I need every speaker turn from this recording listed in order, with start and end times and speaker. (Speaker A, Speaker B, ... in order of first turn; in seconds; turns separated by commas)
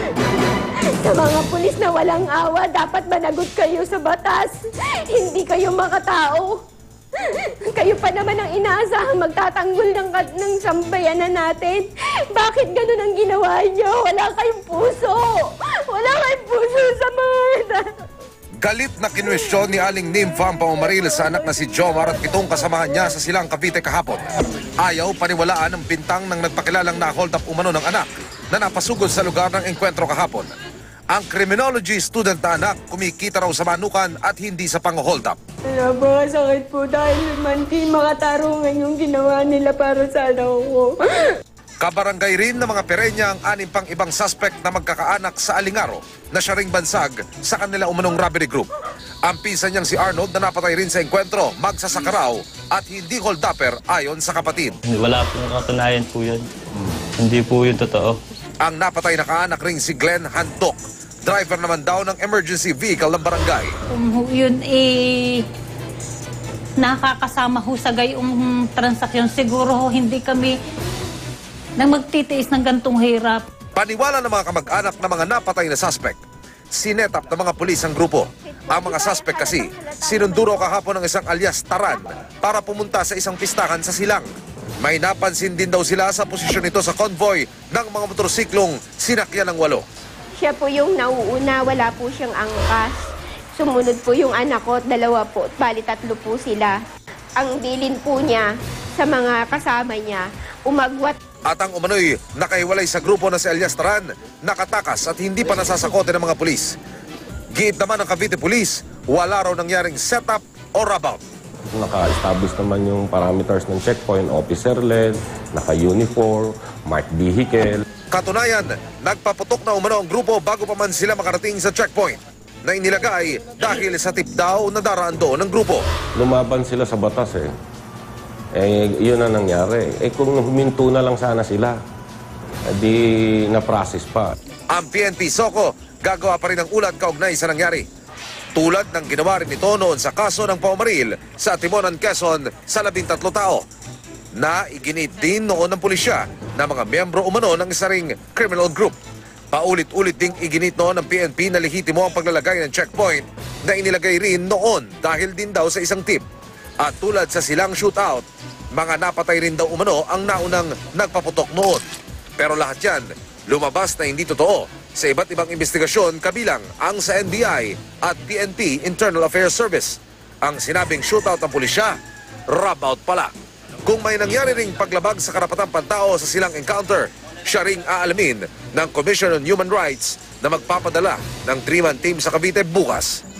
Speaker A: 0.9-6.6, Speaker A: 7.2-17.8, Speaker B: 18.6-24.2, Speaker B: 24.8-30.5, Speaker B: 31.1-35.4, Speaker A: 35.7-40.9, Speaker B: 41.8-48.7, Speaker B: 49.2-54.8, Speaker C: 54.8-56.5, Speaker C: 57.2-58.2, Speaker B: 58.6-63.7, Speaker D: 63.9-65.4, Speaker D: 66.8-70.5, Speaker D: 71.8-73.4, Speaker B: 73.7-76.2, Speaker B: 76.7-84.3, Speaker A: 78.7-80.8, Speaker B: 84.8-89.8, Speaker A: 90.4-92.9, Speaker A: 93.6-96.8, Speaker A: 97.4-101.2, Speaker B: 101.5-106.7, Speaker B: 107.5-111.2, Speaker E: 111.7-117.8, Speaker B: 118.1-125.8, Speaker E: 126.2-127.5, Speaker E: 128.5-131.8, Speaker E: 132.7-134.4, Speaker B: 134.7-137.8, Speaker B: 138.5-143.6, Speaker B: 144.4-149.0, Speaker B: 149.5-156.2, Speaker B: 156.8-161.8, Speaker B: 162.4-171.9, Speaker B: 172.5-173.3, Speaker B: 173.9-183.1